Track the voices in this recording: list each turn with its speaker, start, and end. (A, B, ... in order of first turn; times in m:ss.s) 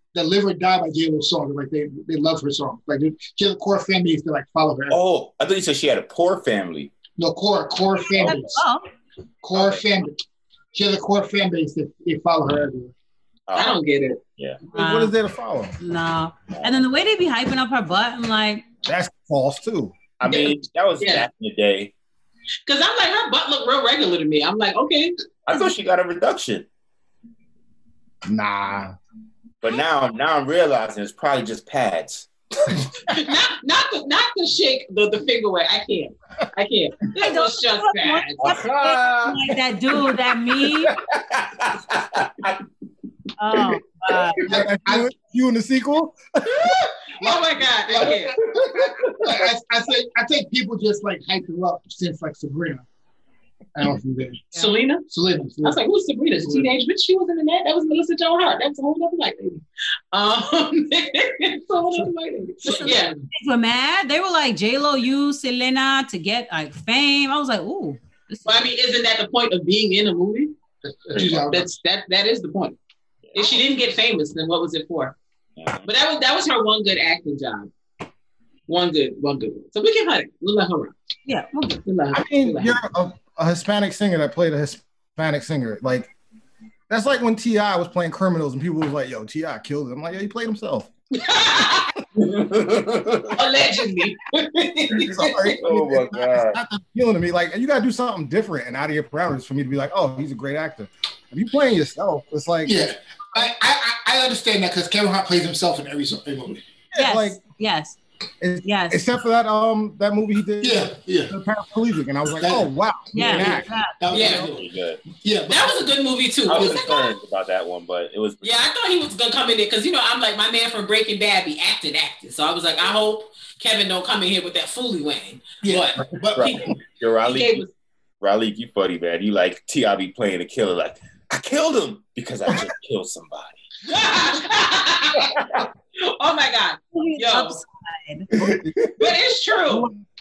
0:00.1-0:05.0 A
0:04.9-0:07.0 B
0:07.2-0:08.6 A
0:08.1-0:08.9 C
0:09.4-0:10.2 A
0:09.5-0:09.8 B
0:10.7-0:12.9 A
0:13.5-0:13.8 B
0:13.6-0:14.2 D
0:14.7-0:15.2 C
0:14.7-0:15.8 E
0:15.8-0:18.6 C
0:16.5-0:16.8 B
0:18.8-0:20.0 E
0:20.2-0:21.9 B
0:20.2-0:21.2 D
0:22.7-0:25.2 D
0:25.5-0:26.7 B
0:28.3-0:29.0 E
0:29.6-0:32.8 B
0:33.1-0:38.6 D
0:37.2-0:40.9 C
0:38.4-0:39.5 B
0:40.6-0:42.6 B
0:43.4-0:44.5 C
0:44.4-0:45.1 A
0:44.4-0:46.9 E
0:47.1-0:52.8 A
0:47.2-0:48.4 D
0:48.5-0:49.0 E
0:49.0-0:49.4 B
0:53.8-0:54.5 A
0:54.6-0:55.0 D
0:55.1-0:55.8 A
0:55.6-1:03.1 D
0:56.4-0:56.7 A
1:02.7-1:08.5 C
1:08.4-1:10.5 D
1:10.8-1:11.7 A
1:11.1-1:11.5 B
1:11.5-1:12.8 D
1:13.4-1:15.2 D
1:15.6-1:15.9 B
1:15.8-1:17.7 D
1:18.7-1:21.0 D
1:21.3-1:21.8 C
1:21.9-1:22.8 D
1:22.1-1:26.1 E
1:26.9-1:30.9 E
1:31.1-1:32.0 D
1:32.2-1:33.4 B
1:33.4-1:35.6 D
1:35.0-1:42.8 E
1:35.6-1:36.6 B
1:35.9-1:36.8 A
1:42.6-1:46.6 A
1:46.9-1:47.4 E
1:47.0-1:48.0 C
1:48.4-1:53.7 E
1:48.6-1:49.0 C
1:50.6-1:51.4 A
1:52.4-1:55.9 A
1:53.1-1:54.1 C
1:54.1-1:54.5 D
1:54.1-1:55.0 B
1:55.5-1:57.2 D
1:56.5-1:58.6 B
1:56.5-1:56.9 A
1:58.4-2:06.7 D
2:05.6-2:06.6 A
2:06.3-2:07.7 B
2:07.2-2:07.7 D
2:08.2-2:13.6 B
2:13.8-2:15.4 D
2:15.2-2:15.7 B
2:16.0-2:17.6 D
2:16.9-2:18.3 C
2:18.3-2:18.9 B
2:18.4-2:18.9 E
2:19.0-2:19.9 D